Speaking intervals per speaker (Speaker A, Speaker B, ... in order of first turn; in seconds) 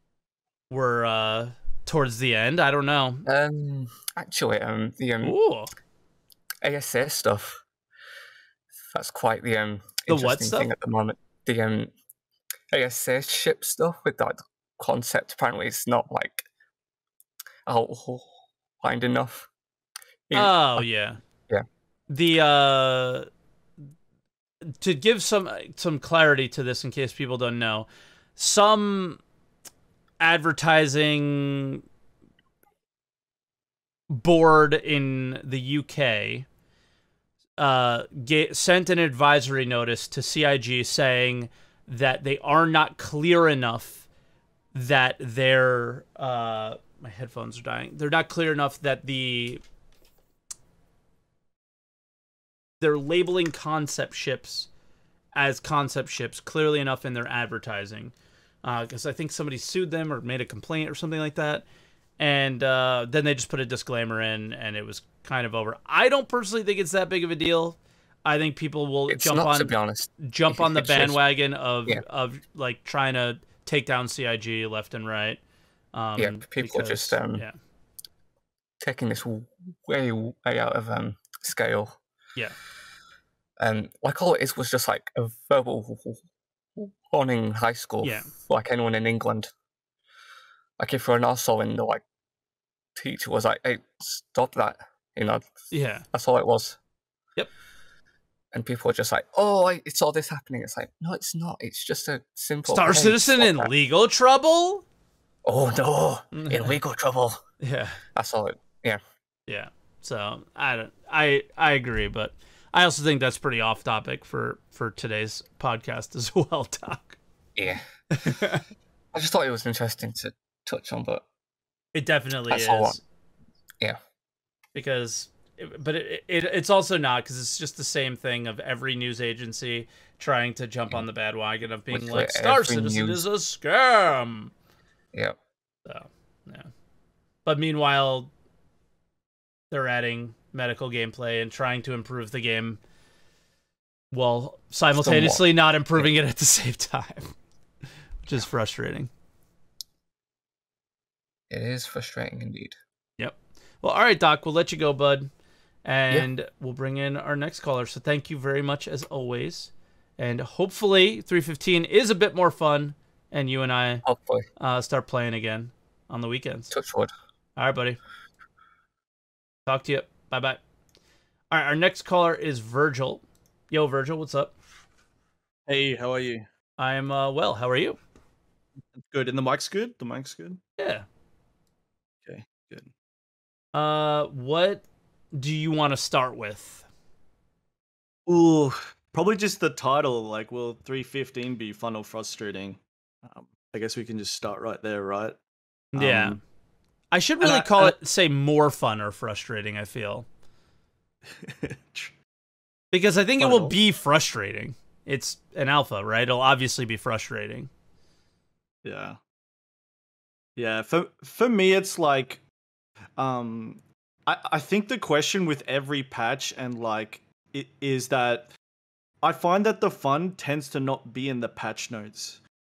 Speaker A: 0.7-3.2, 5.2-5.7, 10.1-10.7, 20.3-21.2, 22.1-23.3, 24.7-29.2, 30.2-31.8, 34.1-36.5, 37.6-44.0, 44.7-49.6, 52.8-54.7, 55.4-58.1, 58.6-61.6, 62.2-75.4, 75.9-77.5, 88.0-88.3, 95.7-96.1, 102.7-104.8, 106.3-106.7, 107.6-108.0, 109.5-117.2, 118.1-118.6, 122.0-123.0, 124.8-134.5, 135.9-136.7, 137.4-138.3, 139.7-142.8, 144.1-147.3, 148.2-149.1, 153.2-155.3, 155.8-164.0, 164.6-166.7, 167.6-168.0, 169.7-170.6, 171.5-174.5, 176.8-178.0, 180.8-181.1, 183.7-186.9, 195.9-196.4, 197.1-200.3, 202.9-207.7
Speaker B: 3.3-5.4, 6.6-7.6, 8.9-11.9, 12.7-16.5, 17.7-19.5, 20.3-20.9, 69.1-71.2, 76.2-77.5, 78.8-82.0, 83.6-86.2, 86.8-89.5, 90.8-92.0, 93.0-95.5, 96.1-96.8, 98.5-103.7, 105.5-107.4, 108.2-109.0, 117.6-117.8, 119.1-121.2, 122.5-123.0, 131.9-133.2, 144.9-146.1, 151.5-152.8, 164.0-164.5, 166.7-167.1
Speaker C: 175.7-176.5, 179.0-180.6, 182.3-182.9, 188.3-195.4, 195.9-196.4, 197.4-197.9, 201.3-202.1, 203.4-203.8, 208.8-209.2, 210.6-212.4, 213.2-218.5, 219.2-222.4